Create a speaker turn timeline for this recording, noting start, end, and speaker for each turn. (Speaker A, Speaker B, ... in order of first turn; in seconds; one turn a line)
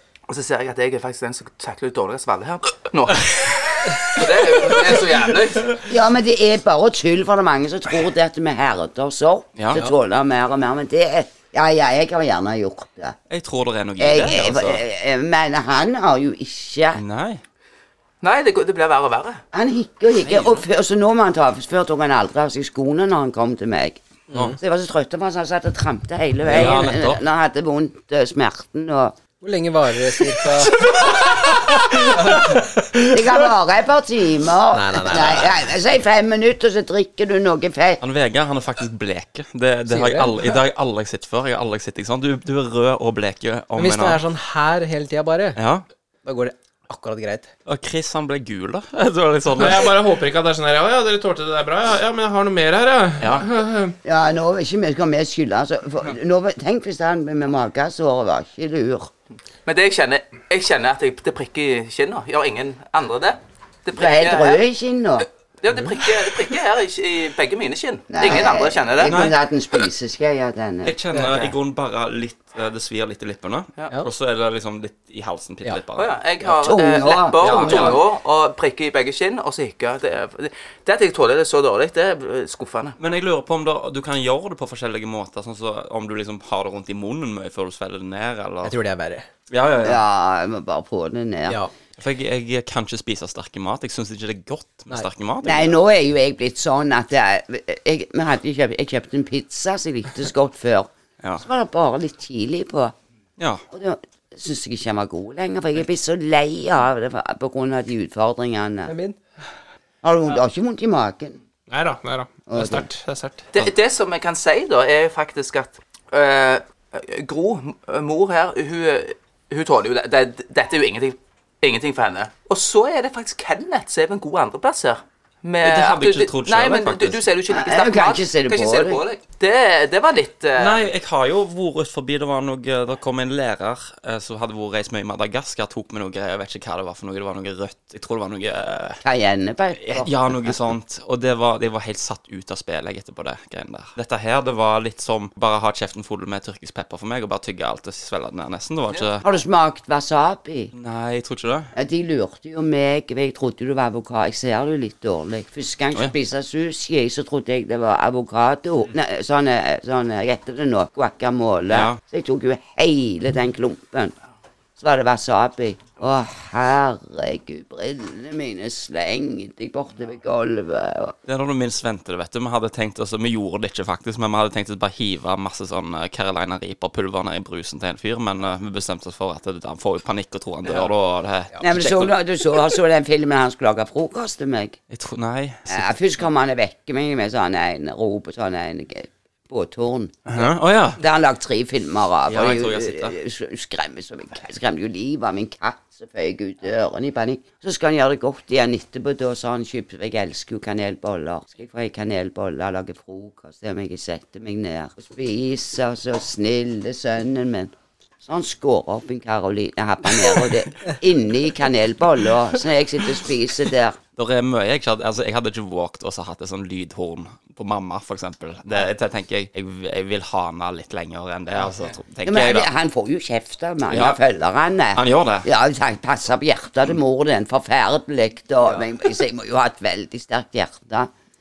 Speaker A: 0.3-5.9
Speaker B: 5.9-13.2
Speaker C: 9.6-9.9
Speaker C: 13.3-14.8
Speaker B: 14.0-17.0
Speaker C: 16.9-17.4
Speaker A: 18.2-19.4
Speaker B: 19.5-24.0
Speaker D: 24.3-24.6
Speaker B: 24.6-29.1
Speaker C: 26.5-27.2
Speaker D: 26.5-26.8
Speaker D: 29.4-30.8
Speaker D: 32.1-32.7
Speaker B: 33.1-38.0
Speaker D: 34.7-35.6
Speaker C: 38.0-44.2
Speaker D: 39.9-40.5
Speaker D: 43.8-45.6
Speaker C: 45.6-45.9
Speaker D: 46.2-47.5
Speaker C: 47.7-50.0
Speaker E: 49.6-54.0
Speaker C: 53.2-53.5
Speaker B: 54.0-59.1
Speaker A: 59.7-64.6
Speaker B: 63.9-65.3
Speaker A: 65.6-69.2
Speaker B: 68.1-71.0
Speaker C: 69.0-69.4
Speaker C: 70.8-76.1
Speaker D: 71.1-71.4
Speaker A: 76.0-83.0
Speaker B: 76.6-78.0
Speaker C: 77.4-78.0
Speaker C: 83.0-88.8
Speaker D: 88.6-89.3
Speaker C: 89.5-90.0
Speaker B: 89.8-91.6
Speaker C: 92.0-95.8
Speaker B: 95.4-102.9
Speaker C: 103.4-103.6
Speaker B: 103.7-108.9
Speaker D: 108.8-109.2
Speaker B: 110.0-111.4
Speaker E: 111.7-113.5
Speaker B: 112.5-112.8
Speaker A: 113.5-130.9
Speaker C: 125.6-127.2
Speaker B: 127.5-129.0
Speaker C: 130.6-139.0
Speaker B: 139.0-140.6
Speaker C: 139.8-149.2
Speaker B: 149.2-150.7
Speaker C: 150.7-151.7
Speaker B: 151.8-164.1
Speaker C: 161.7-162.0
Speaker B: 164.8-171.2
Speaker C: 171.3-182.1
Speaker B: 181.6-184.8
Speaker C: 184.9-185.9
Speaker B: 185.7-190.3
Speaker C: 190.3-191.0
Speaker B: 191.0-214.0
Speaker C: 192.3-193.1
Speaker C: 214.2-222.7
Speaker B: 222.2-231.1
Speaker C: 223.9-224.2
Speaker C: 224.9-225.5